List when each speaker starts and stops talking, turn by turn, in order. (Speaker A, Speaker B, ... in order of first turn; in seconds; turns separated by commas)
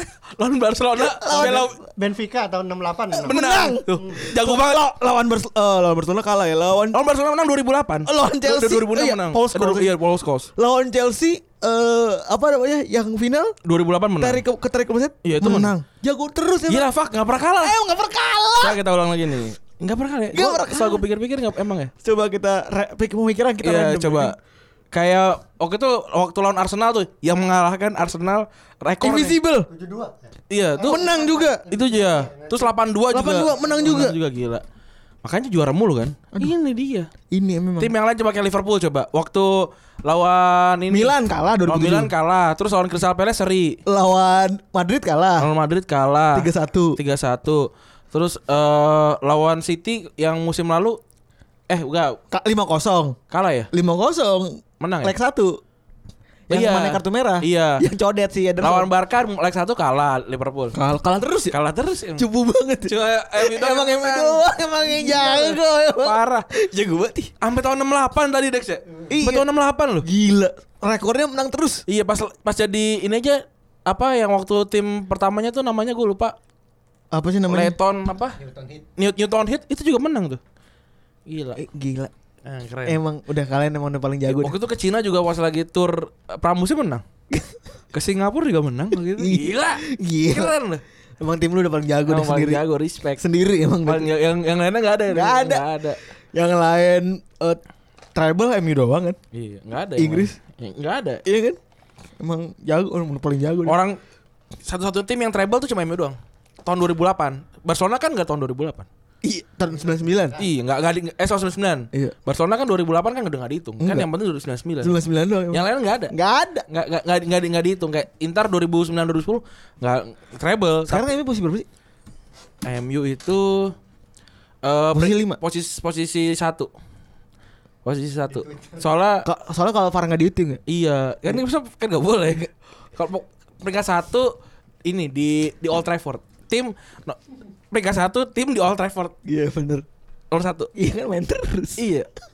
Speaker A: 0.3-1.8, Speaker B: 1.0-1.7, Speaker C: 1.3-3.4, Speaker B: 3.2-7.0, Speaker A: 3.2-4.8, Speaker A: 6.9-10.5, Speaker B: 8.1-10.0, Speaker B: 10.5-13.5, Speaker A: 13.6-14.4, Speaker B: 14.2-16.9, Speaker A: 15.2-15.7, Speaker A: 16.7-17.8, Speaker B: 17.6-18.8, Speaker A: 18.6-21.9, Speaker B: 20.3-21.1, Speaker B: 22.0-24.4, Speaker A: 23.6-24.3, Speaker A: 24.9-29.4, Speaker B: 29.0-29.7, Speaker C: 29.5-32.8, Speaker A: 30.5-31.1, Speaker B: 30.8-31.6, Speaker A: 31.7-34.6, Speaker B: 33.1-34.2, Speaker C: 33.3-33.9, Speaker A: 35.2-37.1, Speaker B: 37.3-37.9, Speaker A: 37.8-41.1, Speaker B: 40.9-42.1, Speaker A: 41.6-43.8, Speaker B: 43.9-45.5, Speaker A: 45.4-51.0, Speaker B: 46.3-47.0, Speaker A: 51.7-52.2, Speaker B: 52.3-53.2, Speaker A: 53.3-53.7, Speaker B: 53.7-55.6, Speaker A: 54.8-55.1, Speaker B: 56.5-58.9, Speaker A: 56.5-57.8, Speaker A: 58.6-60.8, Speaker B: 60.7-61.5, Speaker A: 61.5-62.3, Speaker B: 62.1-67.3, Speaker A: 62.9-66.5, Speaker A: 67.4-70.0, Speaker B: 69.1-69.5, Speaker B: 70.0-71.8, Speaker A: 71.9-76.4, Speaker B: 77.1-77.7, Speaker A: 77.5-78.4, Speaker C: 78.4-78.8, Speaker A: 79.0-80.4, Speaker A: 81.2-81.6, Speaker B: 81.5-82.1, Speaker A: 82.4-83.0, Speaker B: 82.8-84.6, Speaker A: 84.2-87.0, Speaker A: 87.9-90.8, Speaker B: 89.1-90.5, Speaker B: 91.2-92.6, Speaker A: 92.1-93.2, Speaker B: 93.2-94.1, Speaker A: 93.8-96.0, Speaker B: 95.1-95.7, Speaker B: 96.3-97.6, Speaker B: 98.1-99.2, Speaker A: 99.3-101.2, Speaker B: 100.0-100.4, Speaker B: 101.2-101.6, Speaker B: 102.2-103.8, Speaker A: 103.7-104.0, Speaker A: 104.6-108.9, Speaker B: 109.2-110.4, Speaker A: 110.4-115.0, Speaker B: 113.8-114.1, Speaker B: 114.8-116.7, Speaker A: 115.5-116.1, Speaker A: 116.7-121.1, Speaker B: 120.9-121.7, Speaker A: 122.6-123.7, Speaker A: 124.6-126.7, Speaker B: 124.9-125.4, Speaker A: 127.8-129.3, Speaker C: 128.3-128.8, Speaker B: 129.2-130.6, Speaker A: 130.7-137.2, Speaker A: 137.7-139.1, Speaker B: 139.2-139.9, Speaker A: 140.3-140.7, Speaker B: 140.7-141.8, Speaker A: 141.8-142.1